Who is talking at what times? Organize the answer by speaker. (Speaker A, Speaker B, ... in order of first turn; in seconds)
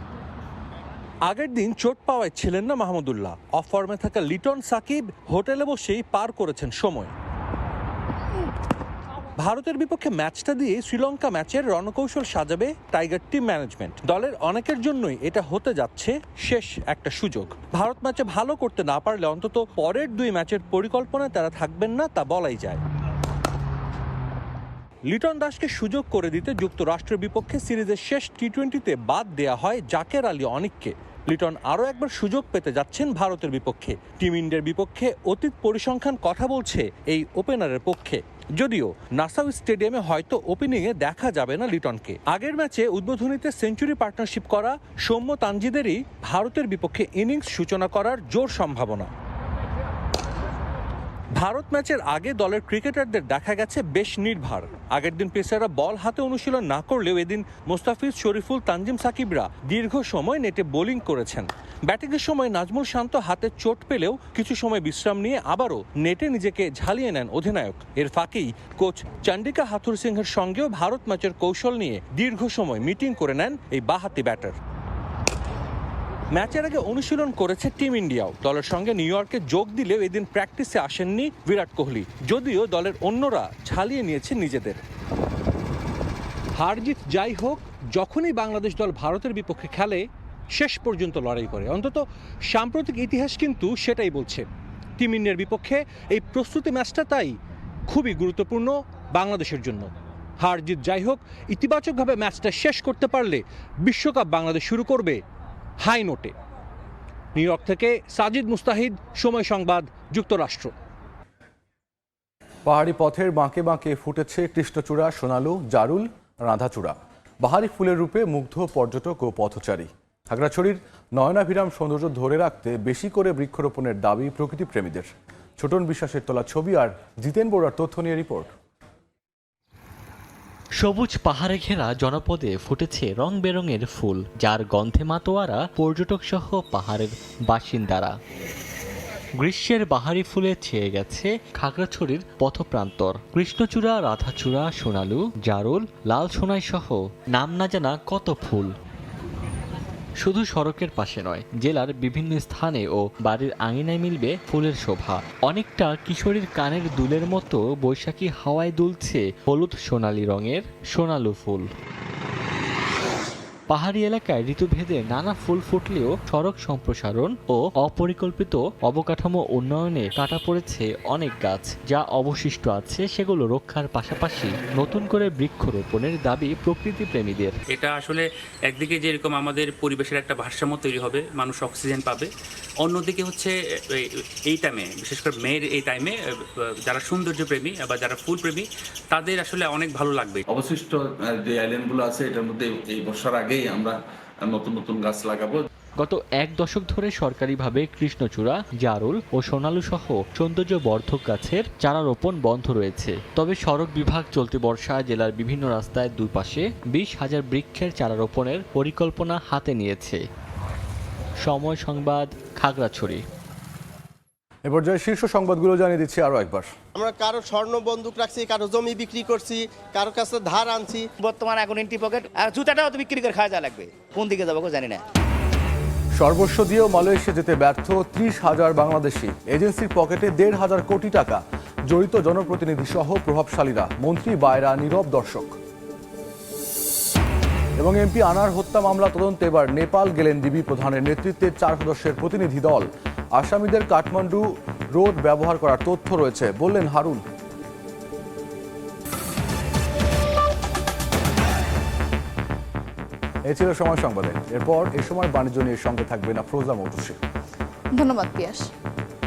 Speaker A: 1.2-7.1, 9.4-22.8, 25.1-49.1, 51.4-74.5, 76.3-84.8, 86.6-90.0, 90.5-94.4, 95.0-97.3, 97.9-99.9, 100.4-105.2, 105.8-106.3, 107.3-110.7
Speaker B: 112.7-128.5, 214.6-216.7, 226.2-235.6, 237.8-247.2, 253.5-257.2
Speaker C: 130.8-138.2, 139.4-148.7, 150.2-161.7, 163.7-177.6, 196.0-210.2, 211.4-213.2
Speaker D: 177.7-182.3, 182.8-190.4
Speaker E: 190.5-193.9, 194.4-195.6, 258.0-258.6
Speaker F: 216.9-221.1
Speaker G: 221.2-225.0